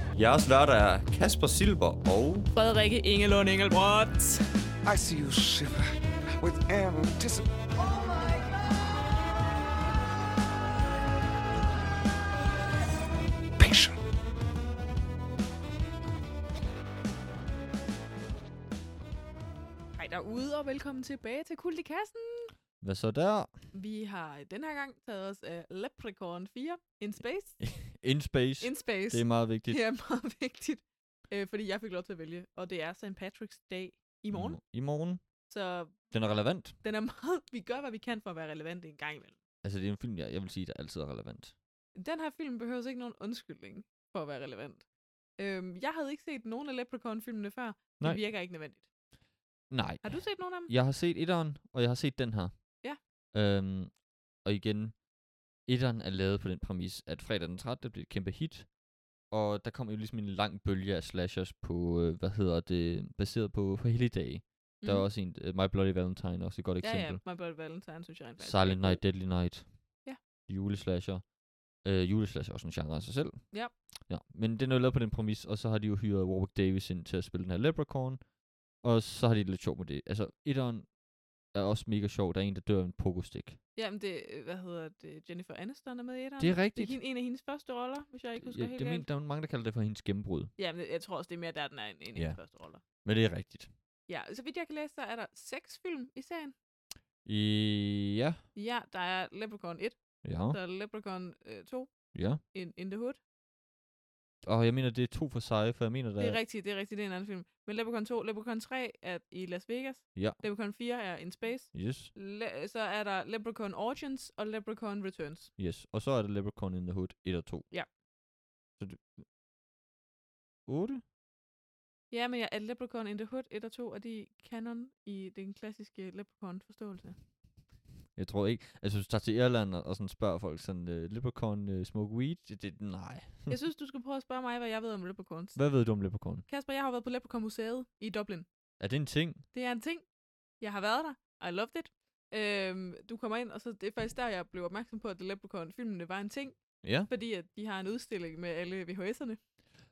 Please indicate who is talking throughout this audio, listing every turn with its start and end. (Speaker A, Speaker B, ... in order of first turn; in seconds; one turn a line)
Speaker A: 0.1-2.5
Speaker B: 2.5-4.4
Speaker C: 4.8-5.9
Speaker C: 6.4-7.5
Speaker C: 13.6-14.0
Speaker B: 19.9-22.5
Speaker A: 22.8-23.5
Speaker B: 23.7-27.7
Speaker A: 27.6-29.8
Speaker B: 28.6-34.6
Speaker A: 34.3-35.2
Speaker B: 35.5-36.1
Speaker A: 36.1-36.8
Speaker B: 36.8-39.4
Speaker A: 39.6-41.5
Speaker B: 42.0-44.8
Speaker B: 45.4-48.9
Speaker A: 49.7-55.0
Speaker B: 50.0-50.7
Speaker A: 55.6-58.7
Speaker A: 59.3-67.2
Speaker B: 64.8-65.1
Speaker B: 66.8-69.0
Speaker A: 68.4-71.3
Speaker A: 71.8-78.2
Speaker A: 78.8-80.9
Speaker A: 81.5-83.6
Speaker B: 83.8-89.1
Speaker A: 86.4-87.0
Speaker A: 88.4-90.5
Speaker B: 90.6-92.8
Speaker A: 92.1-93.7
Speaker B: 94.1-96.5
Speaker A: 97.2-98.4
Speaker B: 98.5-101.9
Speaker A: 100.2-100.6
Speaker A: 102.1-102.4
Speaker B: 102.5-103.2
Speaker A: 104.4-106.4
Speaker B: 106.2-115.5
Speaker A: 110.1-110.4
Speaker A: 111.7-112.1
Speaker A: 115.6-117.7
Speaker A: 118.8-119.2
Speaker A: 120.7-121.0
Speaker B: 122.1-127.2
Speaker A: 128.1-133.6
Speaker B: 133.5-138.5
Speaker A: 135.5-136.4
Speaker A: 138.8-139.4
Speaker B: 139.5-140.0
Speaker B: 140.6-149.4
Speaker A: 146.8-147.1